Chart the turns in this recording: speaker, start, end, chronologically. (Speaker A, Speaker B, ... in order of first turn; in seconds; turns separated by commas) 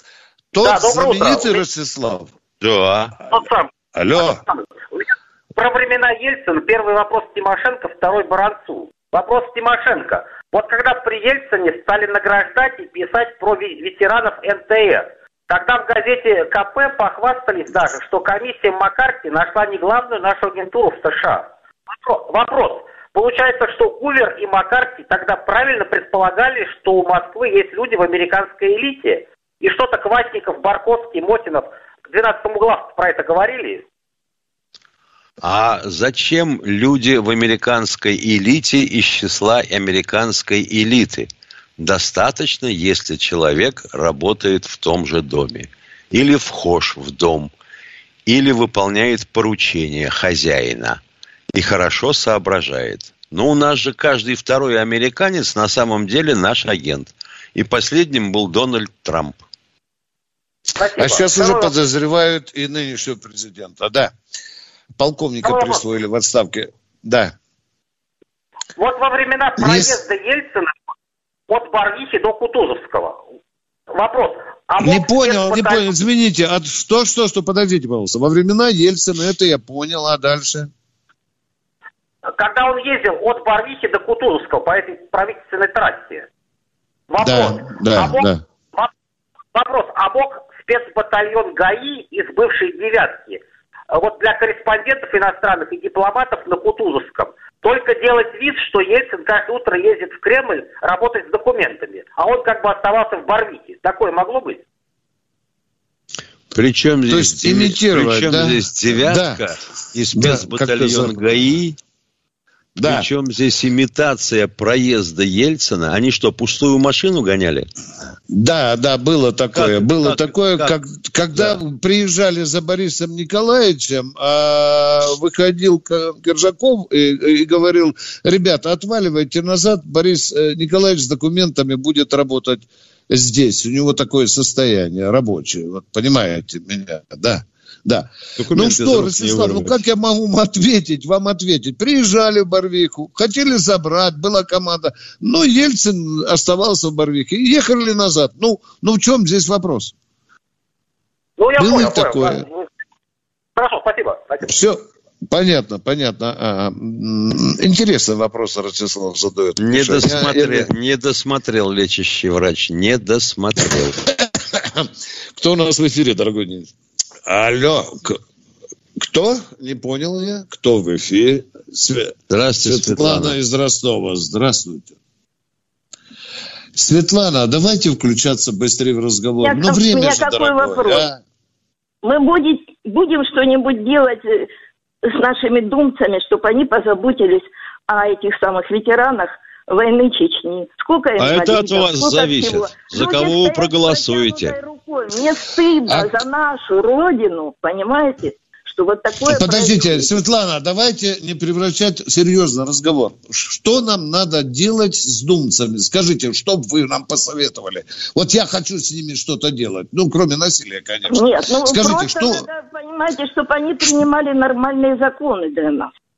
Speaker A: 0.5-2.3, Speaker B: 0.6-1.6, Speaker C: 2.6-3.1, Speaker B: 3.3-3.7, Speaker A: 3.9-4.4, Speaker B: 4.2-21.5, Speaker B: 22.0-33.8, Speaker C: 35.4-47.5, Speaker C: 48.3-51.0, Speaker C: 51.5-59.4, Speaker B: 60.8-61.7, Speaker A: 61.0-64.1, Speaker A: 65.0-67.3, Speaker B: 65.4-65.8, Speaker B: 68.8-70.7, Speaker A: 69.6-69.9, Speaker B: 71.5-73.2, Speaker B: 73.9-75.9, Speaker A: 74.8-80.7, Speaker B: 82.4-86.3, Speaker B: 87.1-88.9, Speaker A: 87.2-88.4, Speaker B: 89.5-104.6, Speaker C: 106.5-111.8, Speaker A: 107.1-109.4, Speaker A: 110.1-111.2, Speaker A: 112.8-113.1, Speaker C: 112.8-117.7, Speaker A: 118.3-149.9, Speaker C: 119.5-120.7, Speaker C: 121.3-121.6, Speaker C: 138.4-139.8, Speaker B: 151.4-152.7, Speaker A: 151.6-152.4, Speaker B: 153.6-154.5, Speaker A: 154.4-160.7, Speaker C: 159.6-164.0, Speaker A: 164.1-166.7, Speaker A: 167.2-168.2, Speaker A: 169.0-174.9, Speaker C: 172.3-173.3, Speaker A: 176.7-181.2, Speaker D: 179.4-181.1, Speaker D: 182.0-184.5, Speaker D: 185.1-200.2, Speaker C: 191.2-194.6, Speaker A: 195.9-196.1, Speaker A: 199.3-212.4, Speaker D: 211.1-215.9